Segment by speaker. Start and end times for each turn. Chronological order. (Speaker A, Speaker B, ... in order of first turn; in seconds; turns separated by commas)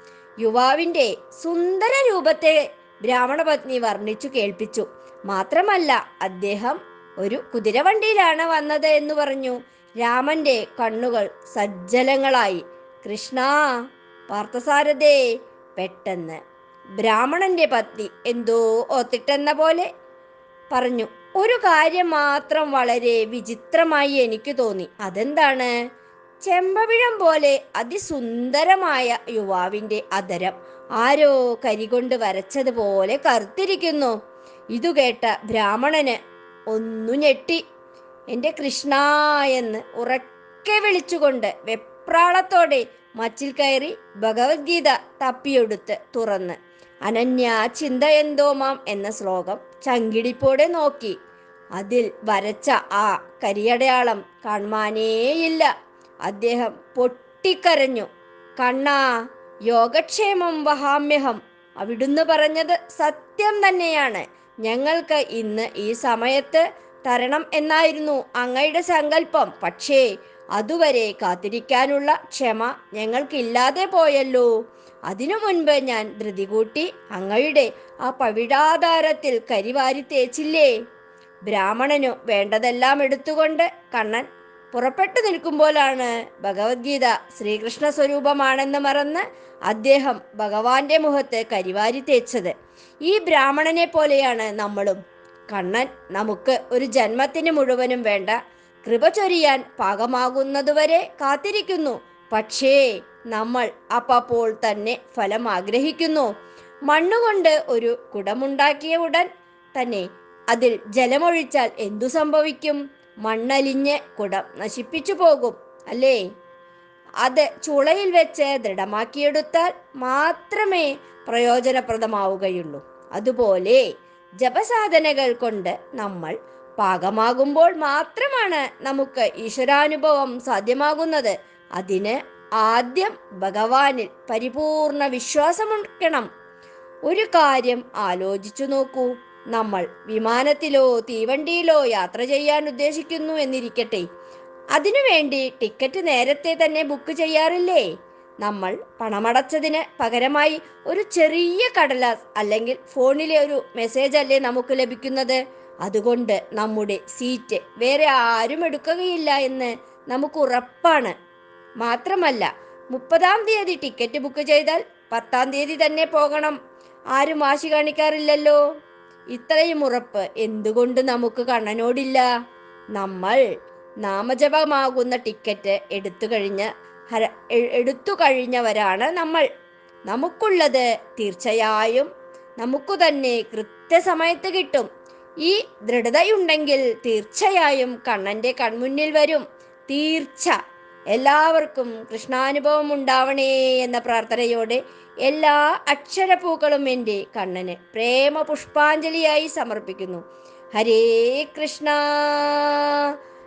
Speaker A: 0.4-13.6, Speaker A: 14.3-15.2, Speaker A: 15.8-16.4, Speaker A: 17.0-19.9, Speaker A: 20.7-25.7, Speaker A: 26.4-34.1, Speaker A: 34.7-36.2, Speaker A: 36.7-37.6, Speaker A: 38.3-51.1, Speaker A: 51.8-55.7, Speaker A: 56.2-58.1, Speaker A: 58.6-59.0, Speaker A: 59.7-70.0, Speaker A: 70.6-74.5, Speaker A: 75.1-80.7, Speaker A: 81.5-92.5, Speaker A: 93.0-95.0, Speaker A: 95.5-102.8, Speaker A: 103.3-106.3, Speaker A: 106.9-116.2, Speaker A: 117.2-123.8, Speaker A: 124.4-136.2, Speaker A: 137.1-144.0, Speaker A: 144.7-147.8, Speaker A: 148.4-161.1, Speaker A: 161.8-166.6, Speaker A: 167.1-168.6, Speaker A: 169.3-172.2, Speaker A: 172.9-173.4, Speaker A: 174.0-179.4, Speaker A: 180.1-182.1, Speaker A: 182.6-184.9, Speaker A: 185.4-190.5, Speaker A: 191.1-200.2, Speaker A: 200.7-203.1